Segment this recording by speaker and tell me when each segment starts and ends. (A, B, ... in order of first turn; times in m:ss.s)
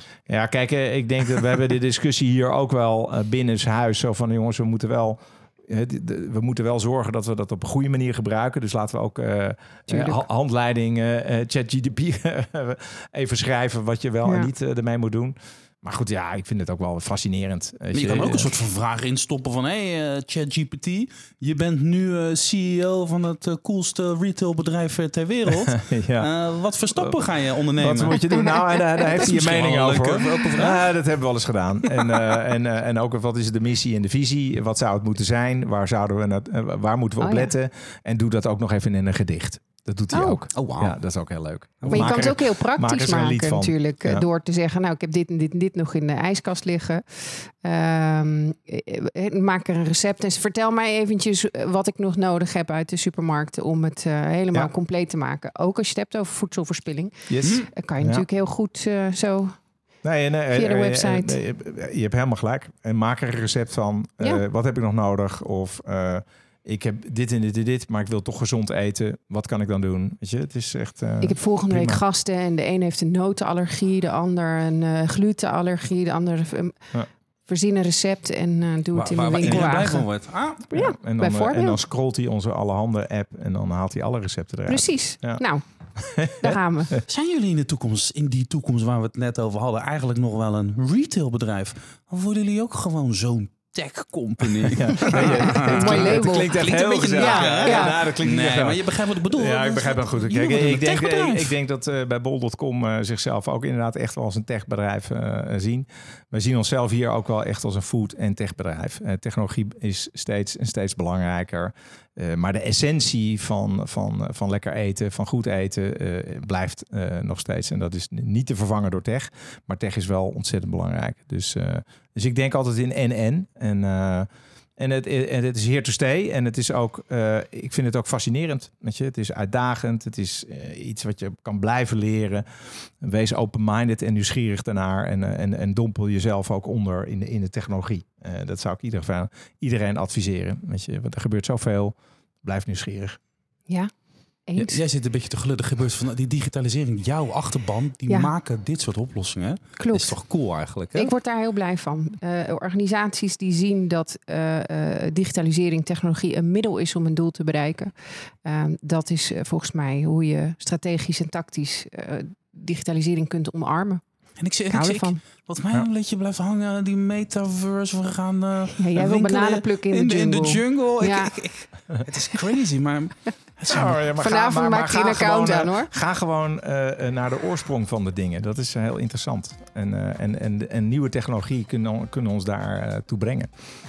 0:00.3-0:18.5 A
0:09.9-0:10.2 B
0:17.9-0:28.4 C
0:25.7-0:26.3 A
0:27.8-0:44.2 A
0:29.1-0:30.9 C
0:31.9-0:32.2 C
0:37.2-0:37.5 B
0:40.1-0:40.4 B
0:40.5-0:41.0 C
0:41.8-0:42.3 C
0:41.9-0:59.6 B
0:57.3-0:58.2 A
0:57.4-0:57.7 C
1:00.0-1:12.0 A
1:00.5-1:01.4 B
1:11.2-1:16.9 B
1:17.5-1:20.1 B
1:18.9-1:20.6 C
1:19.4-1:19.7 A
1:20.7-1:25.4 A
1:20.7-1:21.8 B
1:24.7-1:25.6 B
1:26.0-1:26.6 A
1:26.2-1:26.9 B
1:27.1-1:41.5 C
1:34.8-2:23.2 A
1:35.0-1:36.6 B
1:37.2-1:38.0 B
2:24.5-2:24.8 B
2:24.6-2:31.1 C
2:29.8-2:30.2 B
2:31.0-2:37.9 B
2:38.4-2:44.0 B
2:44.4-2:54.0 C
2:44.7-2:45.2 B
2:48.8-2:51.4 B
2:53.7-3:03.5 A
2:54.2-2:55.9 B